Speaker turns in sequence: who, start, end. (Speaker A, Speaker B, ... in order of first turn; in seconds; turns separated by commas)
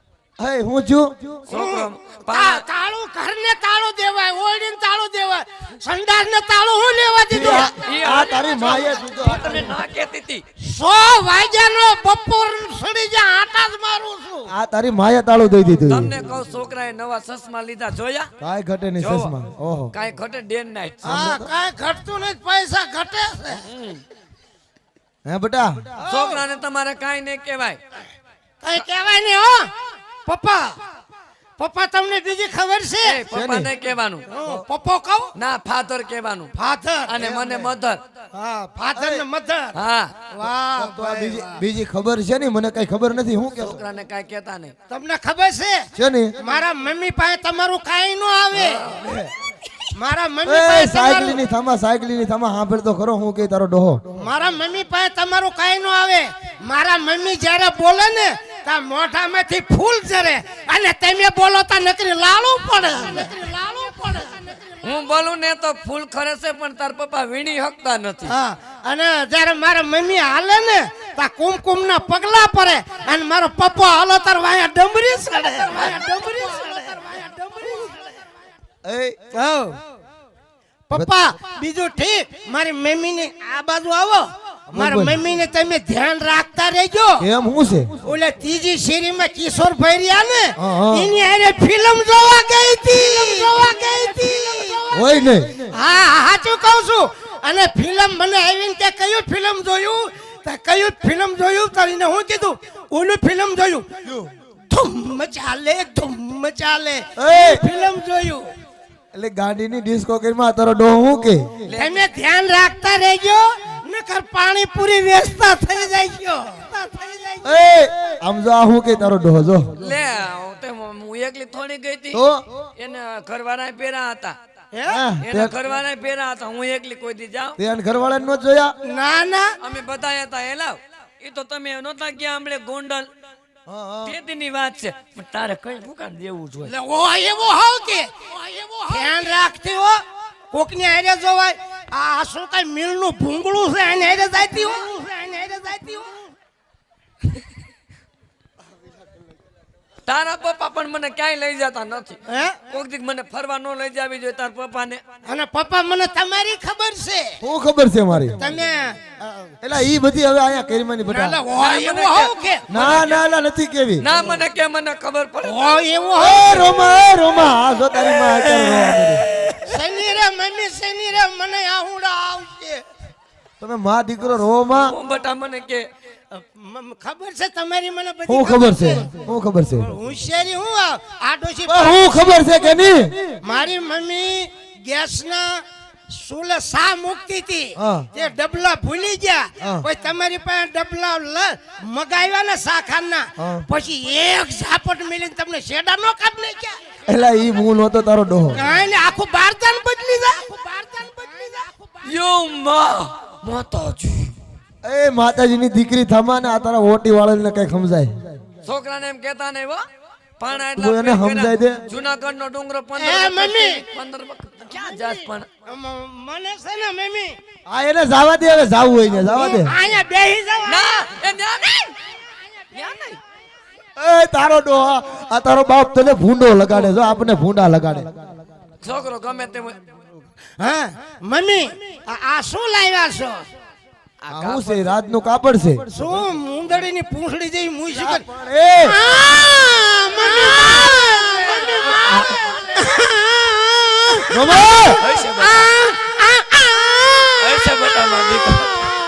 Speaker A: 0.4-1.4, Speaker B: 1.5-2.6, Speaker C: 1.5-7.8, Speaker A: 7.3-9.7, Speaker B: 7.4-10.4, Speaker C: 10.6-14.5, Speaker A: 14.5-16.1, Speaker B: 15.9-18.3, Speaker A: 18.4-19.9, Speaker B: 19.0-19.3, Speaker B: 19.9-21.2, Speaker A: 21.0-21.5, Speaker C: 21.1-23.6, Speaker B: 23.6-24.0, Speaker A: 25.2-25.9, Speaker C: 26.0-26.4, Speaker B: 26.1-27.8, Speaker C: 28.6-29.7, Speaker C: 30.3-30.8, Speaker C: 31.6-33.2, Speaker B: 33.0-34.3, Speaker A: 33.3-33.7, Speaker C: 34.3-35.3, Speaker B: 35.4-36.5, Speaker C: 36.6-37.2, Speaker B: 37.1-38.0, Speaker A: 37.2-37.7, Speaker C: 38.3-39.8, Speaker A: 38.9-39.2, Speaker B: 39.7-40.1, Speaker C: 40.3-41.6, Speaker A: 40.8-43.8, Speaker B: 43.6-44.7, Speaker C: 44.9-45.9, Speaker A: 46.0-46.4, Speaker C: 46.4-48.8, Speaker B: 48.6-49.1, Speaker A: 48.9-49.3, Speaker C: 49.9-51.4, Speaker A: 50.5-54.1, Speaker C: 54.1-64.8, Speaker B: 64.8-68.3, Speaker C: 68.3-78.2, Speaker A: 78.8-79.2, Speaker C: 79.3-79.8, Speaker C: 80.9-87.3, Speaker A: 84.7-85.2, Speaker A: 87.2-88.0, Speaker C: 88.0-95.1, Speaker A: 90.6-91.1, Speaker A: 94.9-95.7, Speaker C: 95.7-103.9, Speaker C: 104.7-108.5, Speaker A: 107.2-107.6, Speaker A: 109.1-111.6, Speaker B: 111.7-112.0, Speaker C: 111.8-117.5, Speaker A: 117.4-119.9, Speaker B: 119.8-122.2, Speaker A: 122.1-122.4, Speaker B: 122.8-124.4, Speaker C: 124.7-125.0, Speaker A: 124.9-125.6, Speaker B: 125.2-127.6, Speaker A: 127.6-128.7, Speaker C: 128.8-129.5, Speaker B: 129.6-133.1, Speaker A: 133.7-134.1, Speaker B: 134.1-136.7, Speaker C: 136.7-146.3, Speaker B: 150.1-152.2, Speaker C: 152.3-152.6, Speaker B: 152.7-155.0, Speaker C: 155.3-157.4, Speaker A: 157.4-158.4, Speaker C: 158.4-159.5, Speaker A: 159.6-161.4, Speaker C: 161.1-162.7, Speaker B: 161.6-163.2, Speaker A: 162.7-164.1, Speaker B: 164.0-165.6, Speaker C: 165.4-166.9, Speaker A: 166.2-169.2, Speaker B: 168.9-169.7, Speaker C: 169.6-172.8, Speaker A: 173.6-174.9, Speaker B: 174.8-175.9, Speaker C: 176.3-179.1, Speaker A: 178.3-179.9, Speaker C: 179.8-182.5, Speaker A: 181.7-183.2, Speaker C: 183.4-196.8, Speaker A: 187.8-188.1, Speaker A: 193.4-193.7, Speaker A: 197.1-198.6, Speaker C: 198.5-202.1, Speaker B: 202.0-204.3, Speaker A: 204.8-208.3, Speaker B: 208.7-209.8, Speaker B: 210.4-215.5, Speaker A: 210.8-211.8, Speaker C: 213.0-213.8, Speaker C: 214.7-217.4, Speaker A: 217.7-219.8, Speaker C: 219.2-220.9, Speaker B: 220.7-221.9, Speaker B: 222.8-223.2, Speaker A: 224.0-228.1, Speaker B: 228.8-229.8, Speaker C: 230.6-233.5, Speaker B: 234.2-234.9, Speaker A: 234.3-235.9, Speaker C: 235.9-238.2, Speaker A: 237.9-239.0, Speaker C: 238.8-247.7, Speaker B: 241.5-242.4, Speaker A: 244.3-245.0, Speaker B: 244.9-245.7, Speaker B: 247.4-248.9